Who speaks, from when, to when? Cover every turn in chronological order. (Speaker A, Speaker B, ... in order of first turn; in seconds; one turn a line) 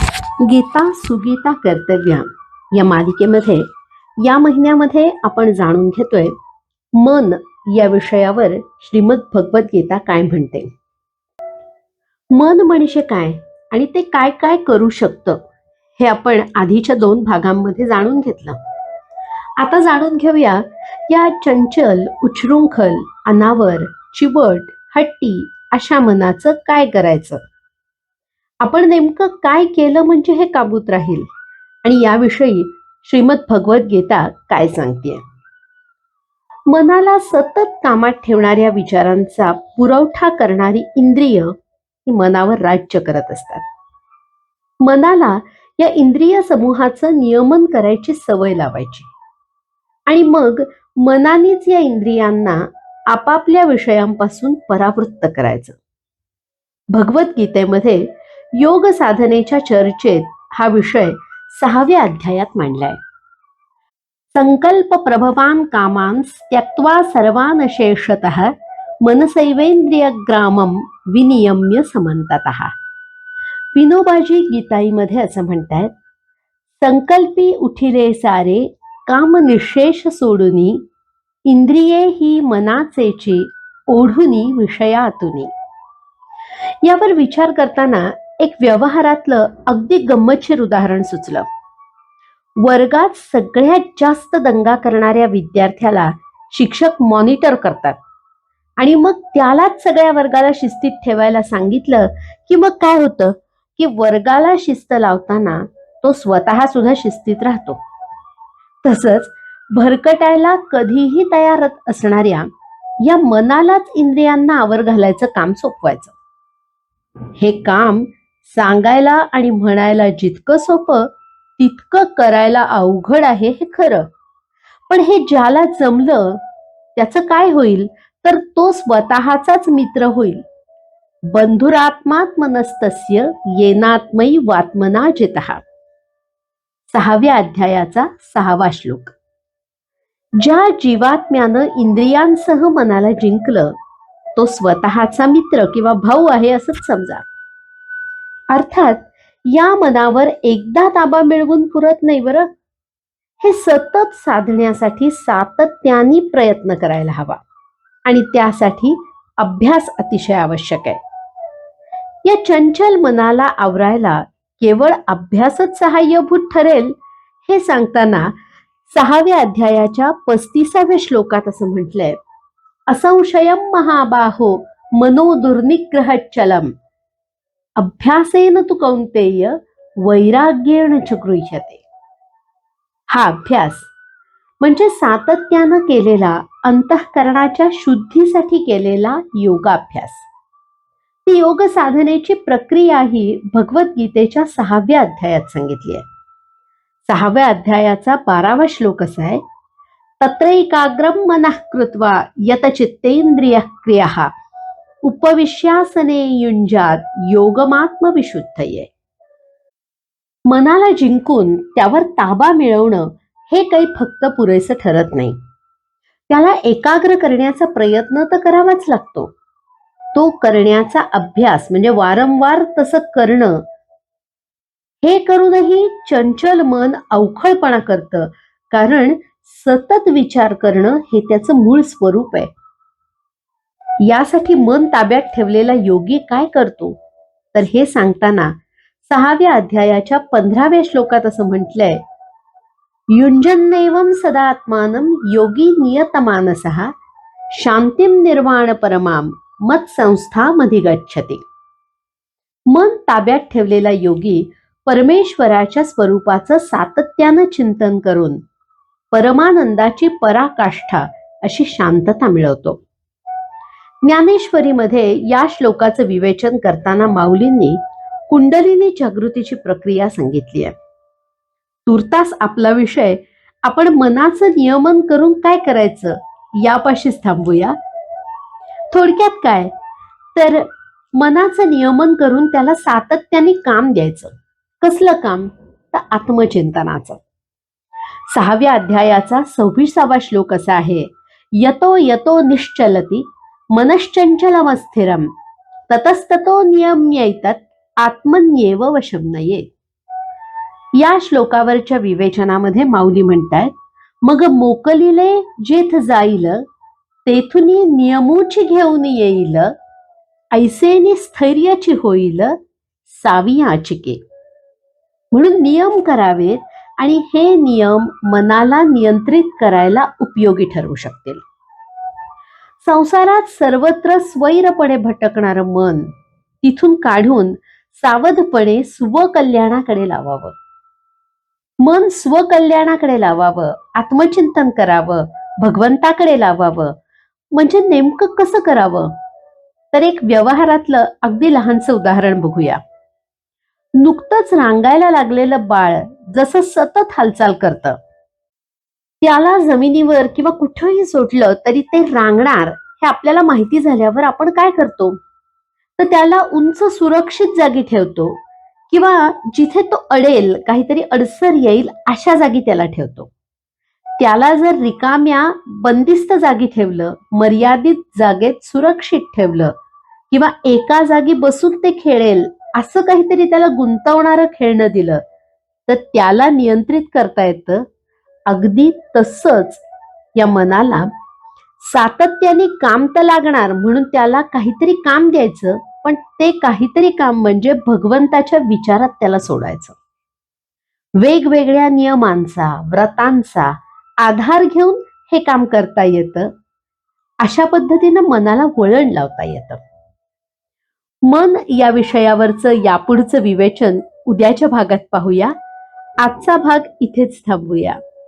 Speaker A: 0.4-3.7
Speaker A: 4.2-6.3
Speaker A: 7.0-10.7
Speaker A: 12.3-15.4
Speaker A: 16.0-18.6
Speaker A: 19.6-27.4
Speaker A: 28.6-31.3
Speaker A: 31.8-35.2
Speaker A: 36.7-41.5
Speaker A: 42.1-43.6
Speaker A: 44.8-49.1
Speaker A: 50.1-55.8
Speaker A: 56.9-63.0
Speaker A: 64.3-72.7
Speaker A: 73.7-75.9
Speaker A: 76.8-80.8
Speaker A: 81.5-85.5
Speaker A: 86.8-91.5
Speaker A: 92.6-98.0
Speaker A: 98.8-107.8
Speaker A: 108.8-112.5
Speaker A: 113.0-116.2
Speaker A: 117.4-124.1
Speaker A: 124.9-126.4
Speaker A: 127.0-130.4
Speaker A: 131.3-135.6
Speaker A: 136.9-139.1
Speaker A: 140.4-143.7
Speaker A: 144.4-147.3
Speaker A: 148.5-152.5
Speaker A: 153.4-157.4
Speaker A: 158.1-161.0
Speaker A: 162.2-166.9
Speaker A: 167.5-168.3
Speaker A: 168.9-172.2
Speaker A: 172.9-176.7
Speaker A: 177.8-181.8
Speaker A: 183.1-183.9
Speaker A: 184.6-190.2
Speaker A: 191.3-196.1
Speaker A: 197.1-199.4
Speaker A: 200.2-204.3
Speaker A: 205.0-208.9
Speaker A: 210.5-215.4
Speaker A: 216.3-219.3
Speaker A: 220.1-223.6
Speaker A: 225.0-232.5
Speaker A: 234.0-237.0
Speaker A: 237.5-242.0
Speaker A: 243.1-246.9
Speaker A: 247.5-251.4
Speaker A: 252.7-258.4
Speaker A: 259.1-262.8
Speaker A: 264.0-270.7
Speaker A: 271.9-277.8
Speaker A: 278.9-279.7
Speaker A: 280.4-287.2
Speaker A: 288.3-295.3
Speaker A: 295.9-299.7
Speaker A: 301.0-306.6
Speaker A: 307.3-309.7
Speaker A: 310.5-312.6
Speaker A: 313.1-314.2
Speaker A: 315.3-321.4
Speaker A: 322.8-326.1
Speaker A: 326.6-330.6
Speaker A: 331.8-336.9
Speaker A: 337.5-339.1
Speaker A: 339.9-342.8
Speaker A: 344.0-348.0
Speaker A: 349.2-355.2
Speaker A: 356.0-363.3
Speaker A: 364.2-369.7
Speaker A: 370.3-375.2
Speaker A: 375.9-377.9
Speaker A: 378.5-379.8
Speaker A: 380.4-381.1
Speaker A: 381.8-390.0
Speaker A: 391.2-396.5
Speaker A: 397.4-399.8
Speaker A: 401.3-405.5
Speaker A: 406.2-408.0